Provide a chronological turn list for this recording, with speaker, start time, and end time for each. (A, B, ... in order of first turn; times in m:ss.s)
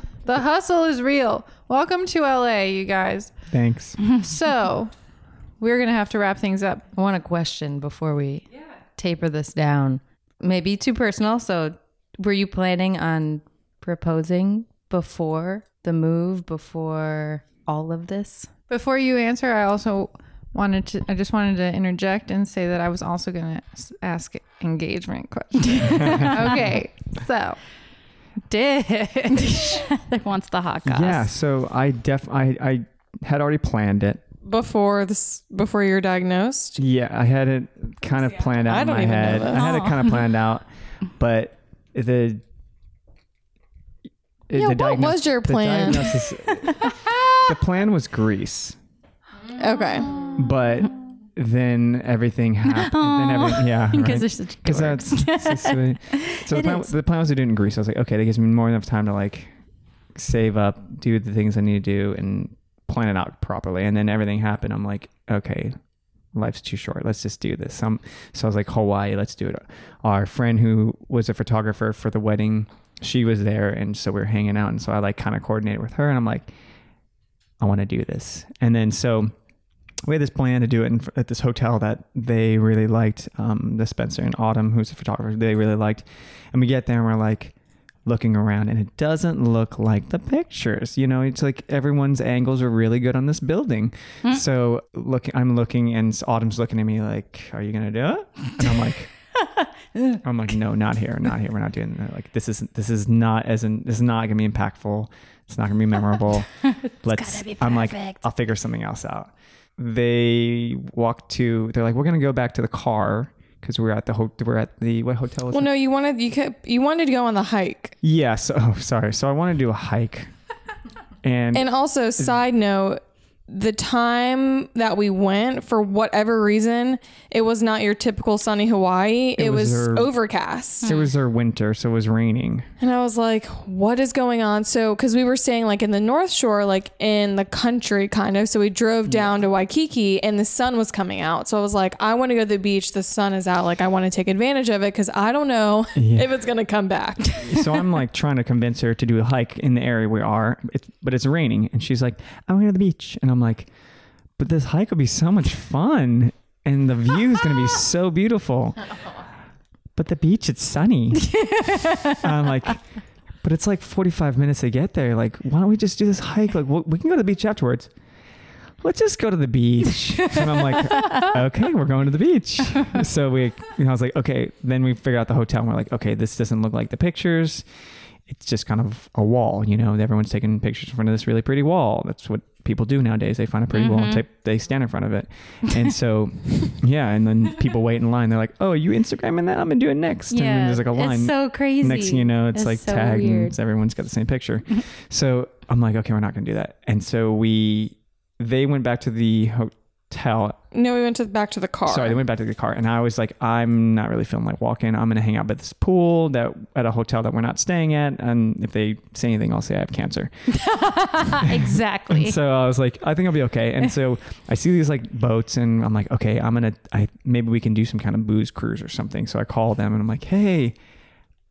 0:00.2-0:03.3 A
0:03.5-0:04.0 B
0:04.1-0:04.9 A
0:05.6-0:06.9 A
0:06.9-0:18.5 C
0:18.7-0:27.6 A
0:25.8-0:26.3 D
0:26.0-0:26.3 B
0:28.5-0:29.9 A
0:29.4-0:31.3 D
0:30.8-0:34.2 B
0:34.4-0:36.8 E
0:36.8-0:40.6 B
0:38.6-0:39.8 E
0:39.5-0:40.1 D
0:41.2-0:42.4 B
0:44.5-0:48.8 B
0:44.5-0:46.3 E
0:49.6-0:50.3 E
0:50.3-0:59.5 B
0:52.6-0:56.9 D
1:00.1-1:05.8 B
1:06.3-1:16.5 B
1:17.6-1:19.3 B
1:20.1-1:27.5 B
1:28.0-1:39.1 B
1:40.2-1:55.7 B
1:47.1-1:48.2 D
1:55.5-1:58.0 E
1:58.0-2:00.3 B
2:01.2-2:02.4 B
2:01.5-2:10.9 E
2:09.4-2:10.1 B
2:10.8-2:12.7 B
2:12.8-2:27.8 E
2:19.1-2:19.4 B
2:25.9-2:26.4 B
2:27.3-2:33.7 B
2:34.4-2:38.8 B
2:39.9-2:42.8 B
2:41.3-2:42.2 D
2:43.4-2:47.9 B
2:48.8-2:57.7 B
2:50.7-2:51.4 D
2:58.3-3:20.6 B
3:03.7-3:04.2 D
3:10.3-3:13.5 D
3:20.7-3:22.2 E
3:21.9-3:30.5 B
3:30.5-3:32.4 D
3:31.4-3:40.8 B